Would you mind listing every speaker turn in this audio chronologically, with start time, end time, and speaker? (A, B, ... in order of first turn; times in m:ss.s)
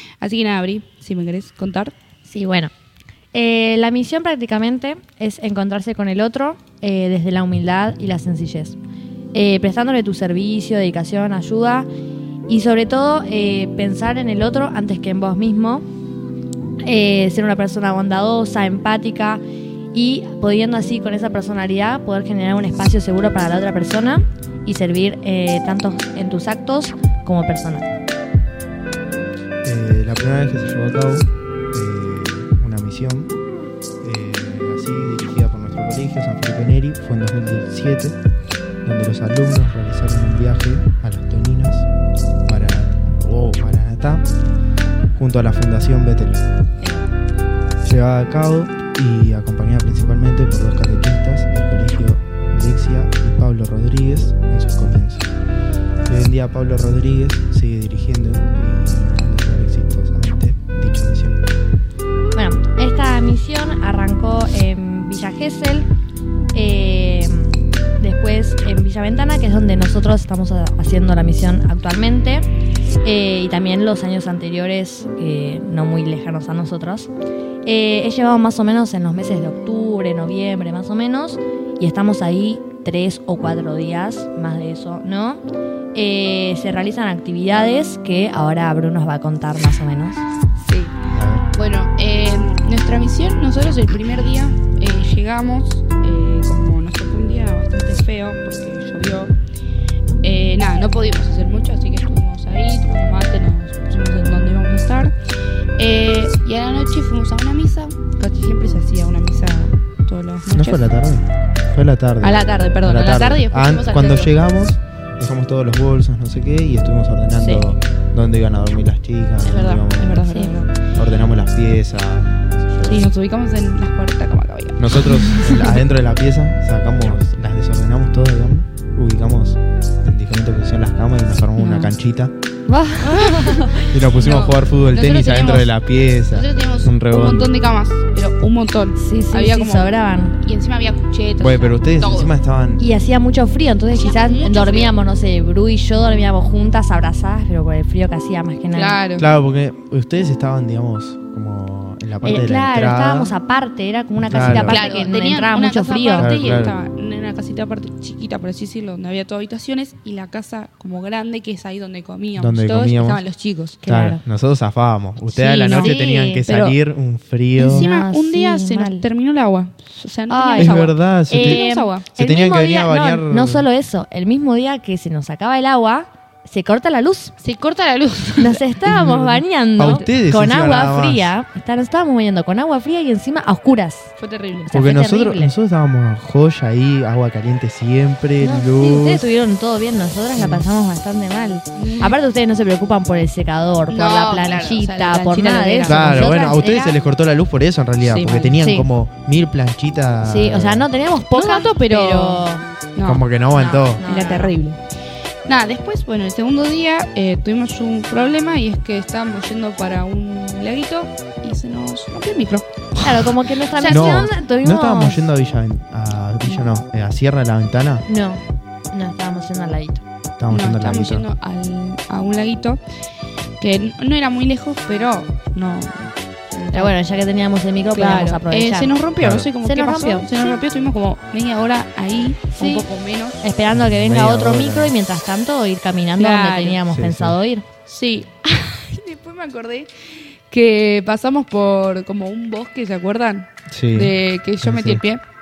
0:00.2-0:01.9 A
0:02.2-0:02.7 B
0:03.3-0:08.8 B
0:09.3-0:11.9 B
0:12.5-0:15.8 B
0:16.8-0:19.4 B
0:19.9-0:27.9 B
0:29.6-0:33.3 C
0:34.0-0:38.2 C
0:38.8-0:41.8 C
0:42.4-0:44.2 C
0:45.2-0:46.5 C
0:46.8-0:47.1 B
0:47.8-0:55.3 C
0:56.1-1:01.4 C
1:02.3-1:05.9 B
1:06.5-1:12.4 B
1:13.0-1:17.1 B
1:17.6-1:25.4 B
1:25.9-1:30.2 B
1:30.6-1:30.9 A
1:31.1-1:31.5 C
1:31.5-1:39.3 A
1:40.2-1:45.1 A
1:45.8-1:50.9 A
1:50.5-2:00.2 C
1:52.2-1:54.3 A
1:57.3-1:57.7 A
1:59.4-2:00.8 A
2:00.2-2:00.6 B
2:00.9-2:03.1 C
2:02.8-2:05.0 A
2:04.8-2:12.3 C
2:11.6-2:11.9 A
2:12.7-2:14.0 B
2:13.0-2:22.3 A
2:13.9-2:17.6 C
2:19.0-2:20.4 B
2:21.4-2:22.8 C
2:22.8-2:29.0 B
2:23.9-2:24.9 A
2:28.7-2:29.2 A
2:29.2-2:33.3 C
2:32.2-2:36.3 B
2:34.2-2:34.8 C
2:34.6-2:43.8 A
2:36.2-2:36.7 C
2:42.4-2:43.2 C
2:43.8-2:44.2 B
2:43.8-2:47.9 C
2:45.3-2:46.4 B
2:45.6-2:46.8 A
2:47.6-2:49.1 B
2:47.6-2:52.1 A
2:50.3-2:57.3 B
2:50.6-2:53.7 C
2:57.4-2:58.8 A
2:58.4-3:04.1 B
2:58.8-3:01.3 C
3:04.2-3:04.8 A
3:04.7-3:05.5 B
3:04.7-3:09.2 C
3:08.4-3:17.0 B
3:11.8-3:12.1 A
3:13.9-3:16.4 A
3:15.8-3:20.9 C
3:18.0-3:18.5 A
3:18.6-3:18.9 B
3:20.2-3:22.6 B
3:21.3-3:23.2 A
3:23.0-3:24.0 C
3:23.5-3:24.6 B
3:24.0-3:24.8 A
3:25.4-3:34.4 A
3:33.0-3:35.3 B
3:33.9-3:38.0 C
3:38.1-3:40.0 B
3:40.4-3:41.2 C
3:40.5-3:42.8 A
3:43.6-3:46.9 A
3:46.7-3:48.9 B
3:47.9-3:53.4 A
3:49.2-3:49.5 C
3:49.6-3:50.6 B
3:52.6-3:52.9 B
3:53.4-3:57.6 B
3:53.7-3:54.9 C
3:56.2-3:56.8 A
3:56.9-3:57.4 C
3:57.9-4:05.2 A
4:03.7-4:05.0 C